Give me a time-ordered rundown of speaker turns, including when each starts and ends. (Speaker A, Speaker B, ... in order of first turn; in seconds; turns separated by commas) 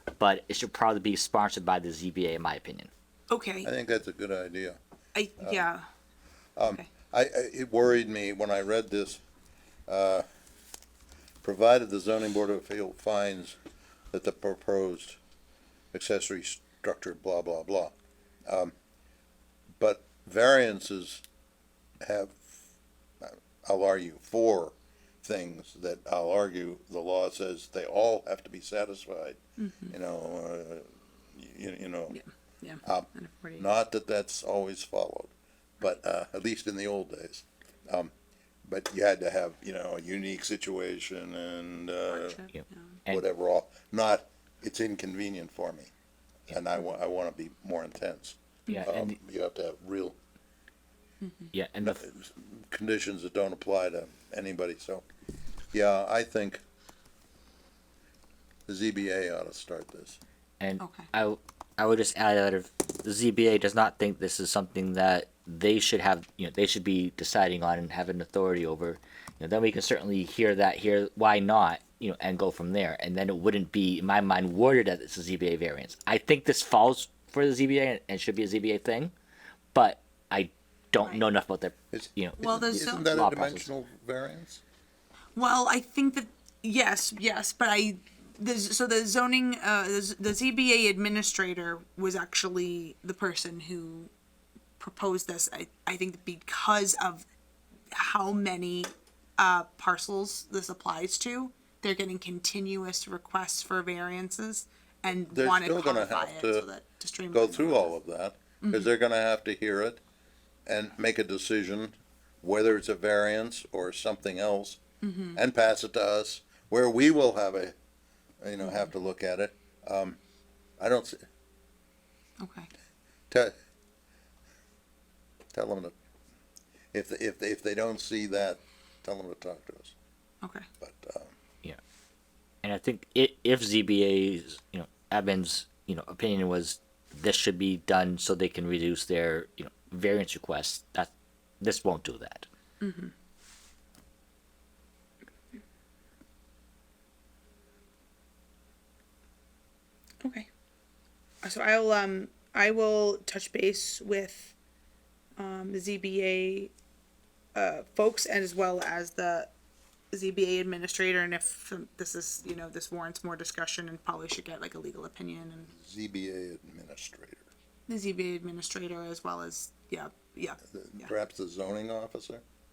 Speaker A: 0.2-2.9, Speaker B: 3.3-3.7, Speaker C: 3.6-4.8, Speaker B: 5.1-5.8, Speaker C: 5.4-5.7, Speaker C: 6.6-9.2, Speaker C: 9.9-10.2, Speaker C: 11.4-13.6, Speaker C: 14.1-15.2, Speaker C: 15.9-17.9, Speaker C: 18.4-18.7, Speaker C: 19.8-21.2, Speaker C: 22.0-22.4, Speaker C: 23.2-29.4, Speaker B: 29.6-29.9, Speaker C: 29.9-32.2, Speaker B: 32.1-33.6, Speaker C: 32.8-38.1, Speaker C: 38.6-42.4, Speaker B: 42.1-42.8, Speaker A: 42.5-43.2, Speaker C: 43.1-45.9, Speaker C: 46.5-50.1, Speaker A: 48.7-49.2, Speaker B: 51.2-51.5, Speaker A: 51.5-52.0, Speaker C: 51.8-55.0, Speaker C: 55.7-56.6, Speaker C: 58.7-60.2, Speaker A: 60.6-79.1, Speaker B: 60.8-61.1, Speaker A: 79.7-83.7, Speaker C: 81.9-84.6, Speaker B: 82.4-83.0, Speaker B: 85.3-94.1, Speaker B: 94.8-97.2, Speaker B: 97.9-107.9, Speaker C: 105.2-106.7, Speaker C: 107.3-110.0, Speaker B: 108.6-108.9, Speaker C: 110.7-114.8, Speaker B: 115.0-115.4, Speaker C: 115.3-117.7, Speaker C: 118.4-120.2, Speaker B: 118.6-118.9, Speaker C: 120.8-121.2, Speaker B: 122.4-122.7, Speaker C: 125.5-125.9, Speaker C: 126.9-129.9, Speaker C: 130.8-131.3, Speaker A: 132.6-142.5, Speaker B: 142.8-143.1, Speaker B: 150.2-150.5, Speaker B: 151.4-154.5, Speaker B: 155.4-156.7, Speaker B: 157.5-159.5, Speaker B: 160.1-165.7, Speaker C: 165.7-167.5, Speaker B: 167.9-171.1, Speaker C: 170.7-172.4